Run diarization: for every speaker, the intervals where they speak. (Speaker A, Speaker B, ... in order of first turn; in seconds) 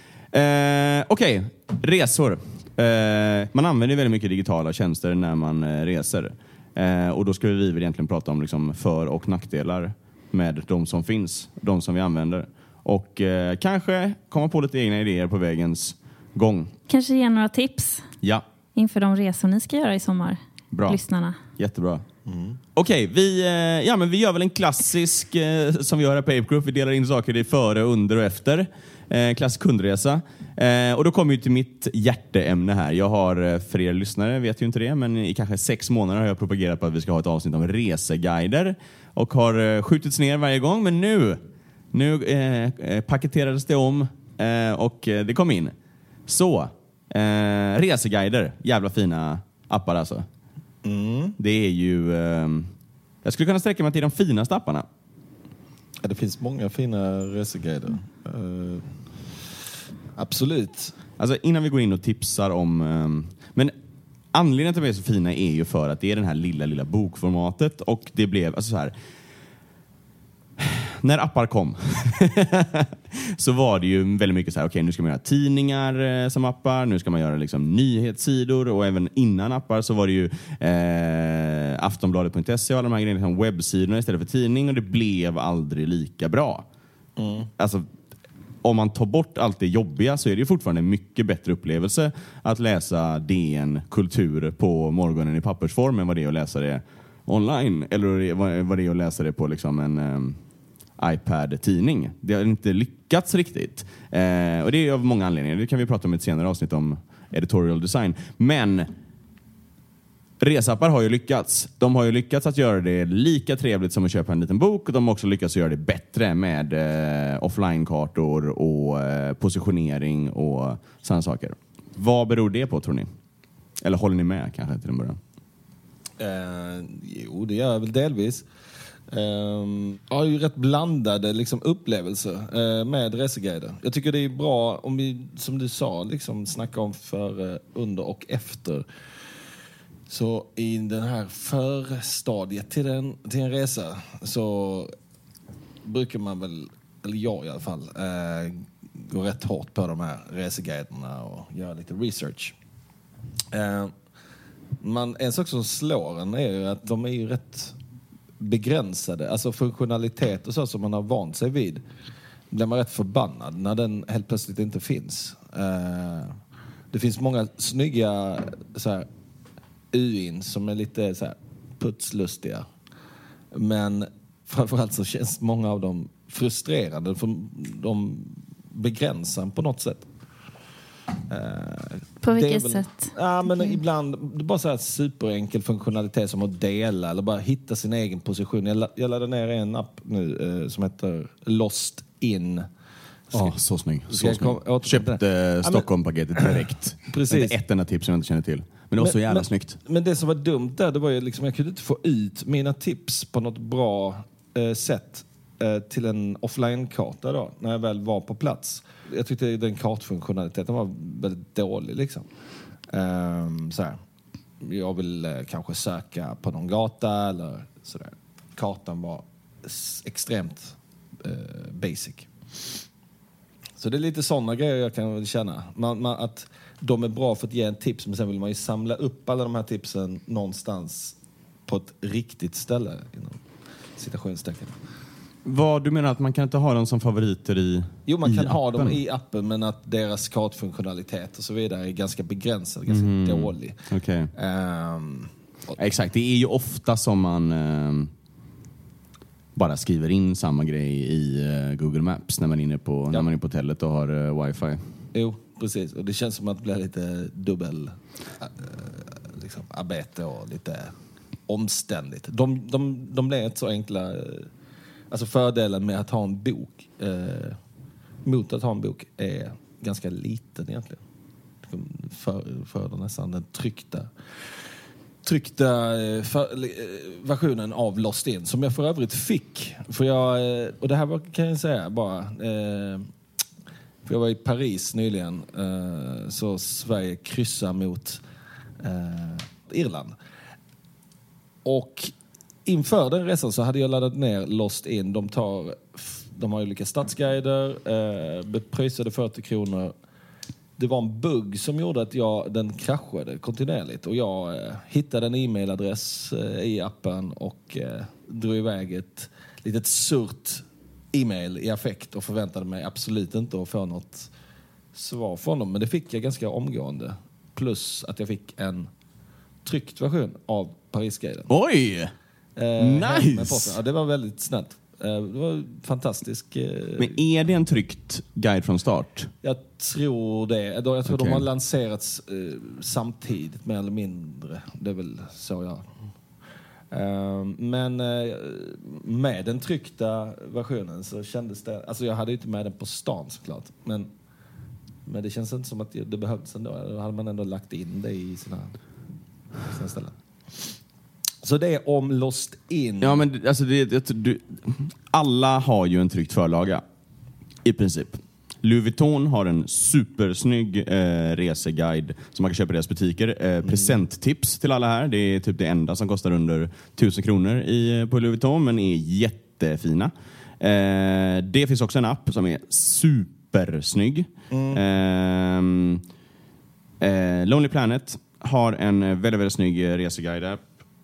Speaker A: 0.3-16.7, 20.7-21.0, 21.6-22.1, 22.8-41.4, 41.9-45.7, 46.3-50.3, 51.4-52.7, 53.2-54.9, 61.2-63.7, 64.3-68.9, 70.6-86.7, 87.6-87.8, 88.6-100.4, 101.0-108.9, 110.4-123.1, 123.8-125.2, 193.3-199.8, 235.4-239.0, 242.9-244.3, 245.8-248.1, 249.6-254.8, 321.5-322.1, 322.8-323.8, 327.0-329.3, 331.1-331.5, 353.0-356.8, 357.6-376.0, 377.0-380.6
Speaker B: 16.9-18.1, 18.8-21.4, 182.2-183.7
Speaker C: 22.3-22.6, 50.8-51.4, 56.0-59.0, 60.2-61.0, 87.2-87.5, 126.2-128.5, 129.1-138.9, 140.1-144.9, 145.8-152.6, 153.5-153.9, 154.8-157.8, 158.4-161.8, 162.5-166.4, 166.9-169.1, 169.9-172.7, 173.5-180.1, 181.3-192.7, 194.1-197.6, 199.0-212.3, 212.9-214.0, 214.6-222.3, 223.8-233.4, 234.0-234.8, 238.1-243.8, 244.3-245.8, 255.1-260.9, 261.5-264.5, 265.1-267.6, 268.2-271.0, 271.6-274.6, 275.2-283.1, 284.1-288.2, 288.8-290.2, 291.6-292.1, 292.7-299.9, 300.8-314.3, 314.9-318.9, 319.6-321.5, 322.6-327.1, 329.4-335.9, 336.9-344.1, 345.1-348.8, 349.7-350.8, 351.4-353.2, 363.6-364.0, 374.5-374.8